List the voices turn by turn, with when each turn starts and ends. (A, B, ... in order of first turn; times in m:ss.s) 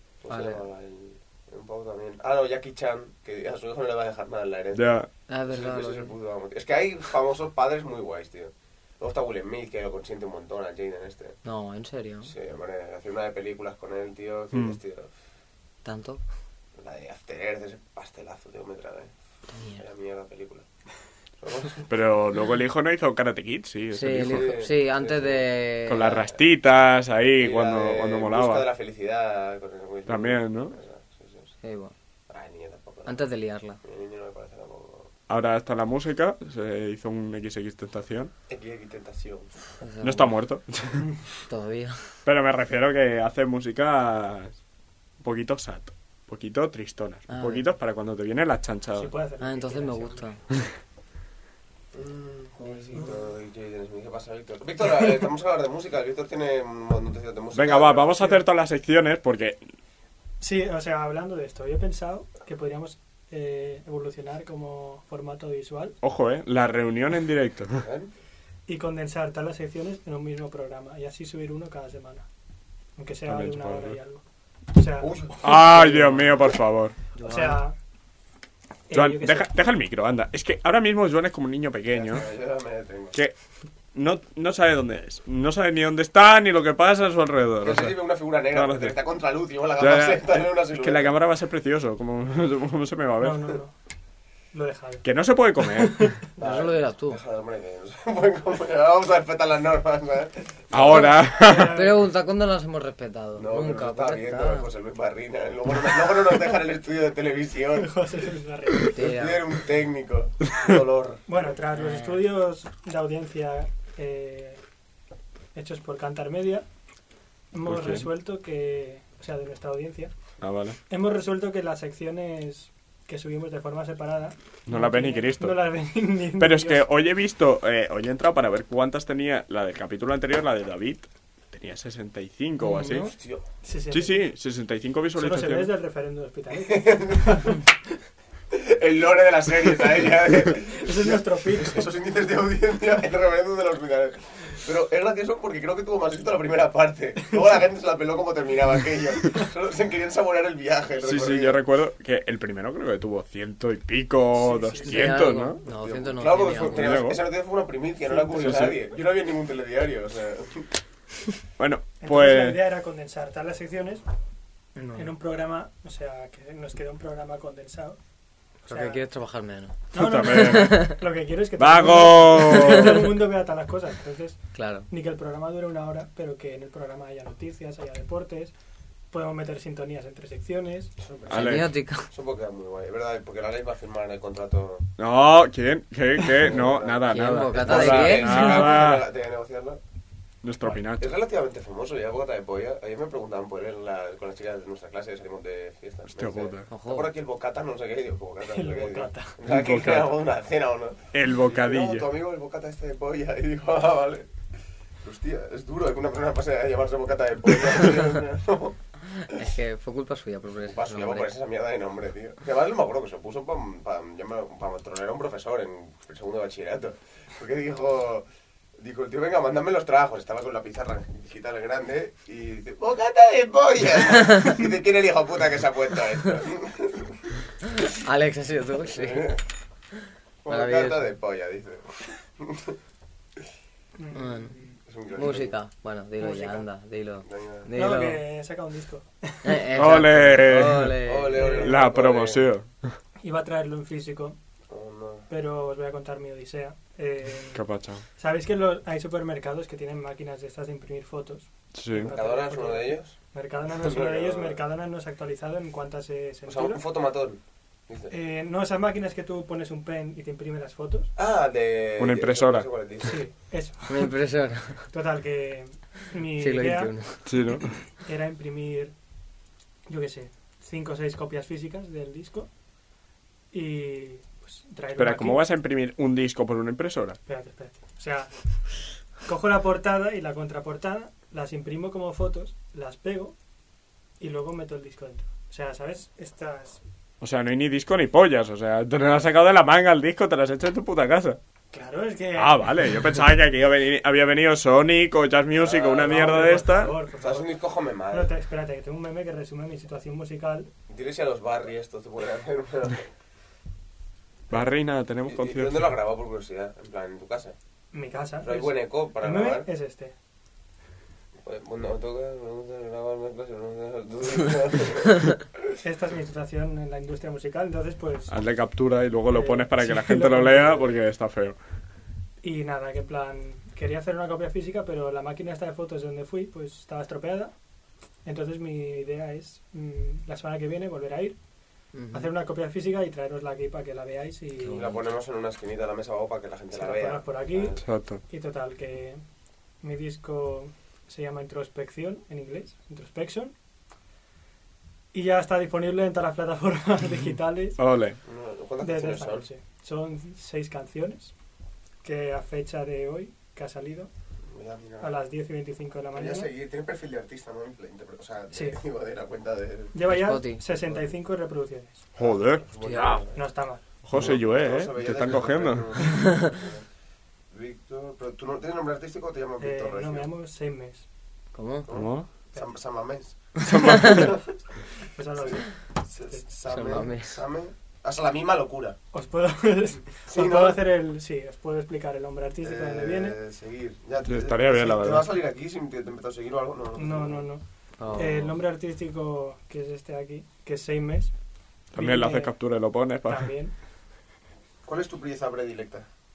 0:00.2-0:04.9 A
0:00.3-0:00.6 B
0:04.7-0:05.1 C
0:05.3-0:06.1 B
0:05.5-0:11.4 A
0:11.4-0:12.3 B
0:12.2-0:15.1 A
0:14.5-0:14.8 C
0:15.8-0:16.2 B
0:16.8-0:19.1 A
0:19.5-0:19.8 B
0:19.8-0:20.7 A
0:21.4-0:21.9 A
0:21.9-0:24.5 C
0:23.9-0:26.3 B
0:24.2-0:25.5 A
0:25.9-0:28.7 C
0:27.4-0:31.5 A
0:30.1-0:30.8 C
0:31.6-0:31.9 B
0:32.3-0:33.2 A
0:33.0-0:33.8 B
0:33.8-0:35.1 A
0:35.3-0:38.3 C
0:38.5-0:39.8 A
0:39.8-0:40.3 B
0:40.0-0:41.0 C
0:41.5-0:42.2 B
0:42.2-0:44.6 C
0:45.2-0:49.1 C
0:47.3-0:47.7 B
0:49.0-0:50.2 D
0:49.4-0:50.4 B
0:51.9-0:58.3 A
0:57.5-0:59.6 C
1:00.4-1:06.0 D
1:06.0-1:07.8 C
1:07.8-1:08.1 A
1:08.7-1:12.3 D
1:13.0-1:14.2 D
1:13.3-1:14.0 C
1:14.7-1:15.6 D
1:15.0-1:16.1 A
1:15.4-1:17.0 C
1:15.8-1:16.0 B
1:17.2-1:17.6 B
1:17.2-1:17.8 D
1:18.9-1:19.5 D
1:18.9-1:22.3 C
1:21.9-1:23.2 A
1:23.9-1:28.0 C
1:27.6-1:31.1 A
1:28.5-1:29.0 C
1:29.8-1:33.6 C
1:33.2-1:33.7 D
1:34.5-1:35.0 D
1:35.0-1:36.2 C
1:35.6-1:36.2 D
1:36.4-1:41.0 A
1:36.4-1:37.2 B
1:40.7-1:41.8 C
1:41.2-1:44.7 B
1:41.3-1:42.0 D
1:43.4-1:48.0 A
1:47.8-1:49.0 D
1:48.8-1:51.2 A
1:48.9-1:49.4 B
1:51.3-1:54.6 D
1:51.8-1:52.2 B
1:55.6-1:56.7 D
1:57.5-2:00.1 D
1:57.7-1:58.1 C
2:00.4-2:00.8 C
2:00.9-2:06.9 D
2:04.7-2:05.6 C
2:06.4-2:13.1 C
2:12.6-2:13.1 B
2:13.0-2:13.4 A
2:13.6-2:14.3 D
2:13.9-2:15.7 C
2:15.2-2:17.6 D
2:16.6-2:17.6 A
2:18.5-2:31.6 A
2:20.6-2:21.9 D
2:31.0-2:35.6 C
2:34.4-2:35.2 D
2:34.8-2:37.0 B
2:35.7-2:40.7 A
2:36.7-2:37.2 C
2:38.1-2:38.8 D
2:38.3-2:38.8 C
2:41.6-2:42.6 C
2:42.0-2:44.0 D
2:44.8-2:45.1 B
2:45.0-2:48.0 D
2:48.6-2:49.0 D
2:48.7-2:51.0 B
2:49.9-2:58.5 D
2:50.0-2:50.9 C
2:51.6-2:53.0 C
2:52.5-2:53.0 B
2:54.5-2:54.9 B
2:59.1-3:01.0 D
3:01.0-3:04.9 A
3:01.3-3:01.7 C
3:01.3-3:02.1 B
3:05.0-3:09.0 C
3:06.3-3:09.8 A
3:07.1-3:08.8 B
3:10.4-3:11.1 C
3:11.0-3:24.3 A
3:16.1-3:16.7 C
3:16.7-3:17.1 B
3:18.5-3:19.4 D
3:19.5-3:20.2 C
3:21.1-3:22.1 C
3:25.0-3:28.8 A
3:29.3-3:31.3 B
3:30.7-3:38.3 A
3:38.8-3:47.3 A
3:47.8-3:49.3 B
3:48.8-3:49.4 A
3:50.4-3:52.8 A
3:50.5-3:51.1 B
3:54.0-3:54.7 D
3:54.1-3:54.6 B
3:54.8-3:55.5 A
3:55.1-3:58.2 B
3:56.2-3:56.6 D
3:57.2-3:57.7 A
3:57.8-3:59.6 D
3:59.4-4:01.6 B
3:59.8-4:01.0 C
4:01.0-4:02.4 A
4:01.3-4:01.8 D
4:01.6-4:03.0 C
4:03.2-4:04.4 D
4:04.7-4:05.3 A
4:05.3-4:07.6 D
4:07.5-4:08.0 C
4:08.2-4:16.8 D
4:11.7-4:12.1 C
4:12.1-4:13.2 A
4:13.7-4:14.6 A
4:16.5-4:18.1 A
4:18.1-4:21.1 D
4:21.2-4:23.2 A
4:22.0-4:22.7 C
4:23.0-4:24.1 D
4:23.9-4:24.9 B
4:24.9-4:26.9 D
4:26.3-4:27.3 B
4:27.3-4:27.7 C
4:27.9-4:28.9 D
4:29.9-4:32.5 D
4:33.5-4:35.4 D
4:35.0-4:37.2 C
4:37.3-4:43.4 D
4:44.2-4:46.8 D
4:47.2-4:51.4 C
4:51.7-4:52.7 D
4:52.4-4:57.0 C
4:55.6-4:56.4 A
4:55.9-4:57.6 D
4:57.2-4:58.3 A
4:58.1-5:00.7 D
5:00.9-5:03.1 A
5:04.5-5:05.9 C
5:05.3-5:07.6 A
5:07.9-5:10.1 D
5:08.4-5:09.7 A
5:11.4-5:15.5 A
5:15.8-5:18.4 D
5:18.3-5:21.6 C
5:19.3-5:20.9 D
5:22.4-5:27.5 D
5:28.2-5:31.4 D
5:31.9-5:32.3 B
5:32.1-5:34.9 D
5:34.6-5:35.0 B
5:34.7-5:37.8 A
5:36.7-5:39.2 D
5:37.8-5:38.2 C
5:39.8-5:43.5 D
5:45.1-5:47.8 D
5:47.8-5:48.2 C
5:48.2-5:49.5 A
5:48.8-5:51.3 D
5:52.0-5:54.1 D
5:54.5-5:55.1 A
5:55.0-5:56.5 D
5:56.1-6:00.0 A
5:58.5-5:58.8 D
5:59.9-6:02.1 D
6:00.1-6:00.6 B
6:00.7-6:01.1 A
6:02.2-6:03.4 A
6:02.2-6:03.2 C
6:02.8-6:03.2 B
6:03.3-6:03.8 D
6:04.0-6:06.0 C
6:04.1-6:06.8 A
6:07.5-6:10.3 A
6:09.6-6:11.0 D
6:11.5-6:11.9 B
6:11.9-6:14.6 A
6:11.9-6:12.3 C
6:13.6-6:14.4 C
6:15.1-6:16.4 D
6:15.4-6:19.0 A
6:16.7-6:17.4 B
6:19.1-6:23.4 D
6:20.3-6:20.8 A
6:22.6-6:27.4 A
6:24.3-6:25.3 C
6:27.0-6:27.6 D
6:28.0-6:28.5 B
6:28.1-6:31.3 D
6:31.9-6:33.5 C
6:31.9-6:32.5 D
6:33.3-6:33.7 D
6:34.8-6:36.1 A